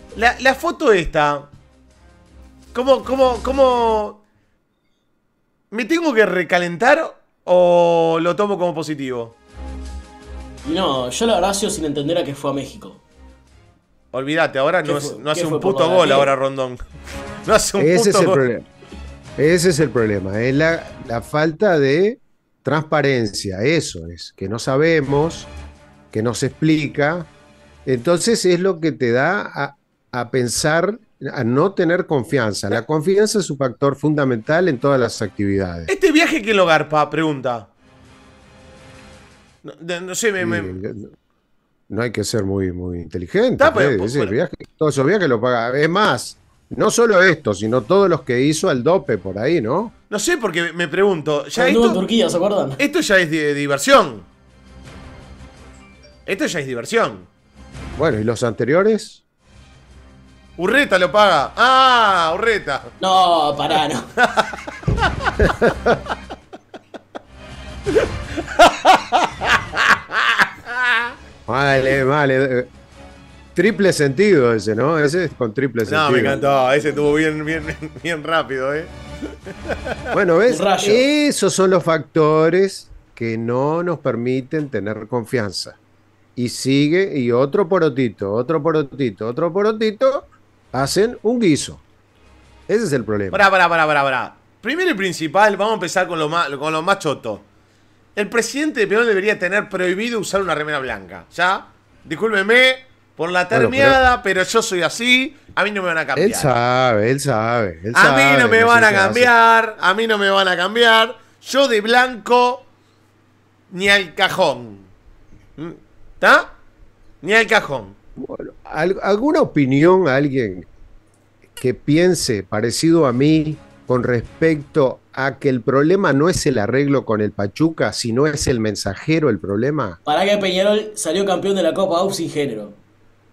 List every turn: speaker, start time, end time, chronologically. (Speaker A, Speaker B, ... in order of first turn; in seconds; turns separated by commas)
Speaker A: 0.1-1.5, Speaker A: 2.7-4.2, Speaker A: 5.7-9.3, Speaker B: 10.6-13.0, Speaker A: 14.1-16.8, Speaker B: 14.8-16.3, Speaker A: 17.4-18.4, Speaker C: 17.8-18.6, Speaker C: 19.4-25.5, Speaker C: 26.1-27.3, Speaker C: 27.9-35.9, Speaker A: 35.9-37.7, Speaker A: 39.6-40.8, Speaker C: 40.4-41.1, Speaker C: 41.9-49.9, Speaker A: 43.6-44.4, Speaker A: 50.1-52.0, Speaker B: 51.5-52.8, Speaker A: 52.8-54.2, Speaker A: 56.2-57.3, Speaker C: 58.0-59.2, Speaker A: 60.6-62.9, Speaker B: 63.0-64.1, Speaker A: 64.3-64.6, Speaker C: 65.4-66.0, Speaker A: 68.5-70.4, Speaker C: 71.5-72.7, Speaker C: 73.5-76.4, Speaker A: 75.8-78.9, Speaker B: 76.3-77.0, Speaker A: 79.7-80.1, Speaker C: 80.1-85.8, Speaker B: 80.5-81.1, Speaker C: 86.4-91.8, Speaker C: 92.7-93.4, Speaker A: 93.3-97.4, Speaker A: 98.2-106.5, Speaker C: 103.5-104.0, Speaker C: 106.2-109.3, Speaker A: 107.9-112.7, Speaker A: 113.7-114.9, Speaker A: 115.6-116.5, Speaker A: 117.2-117.9, Speaker C: 118.2-120.7, Speaker C: 121.6-130.0, Speaker B: 130.0-132.8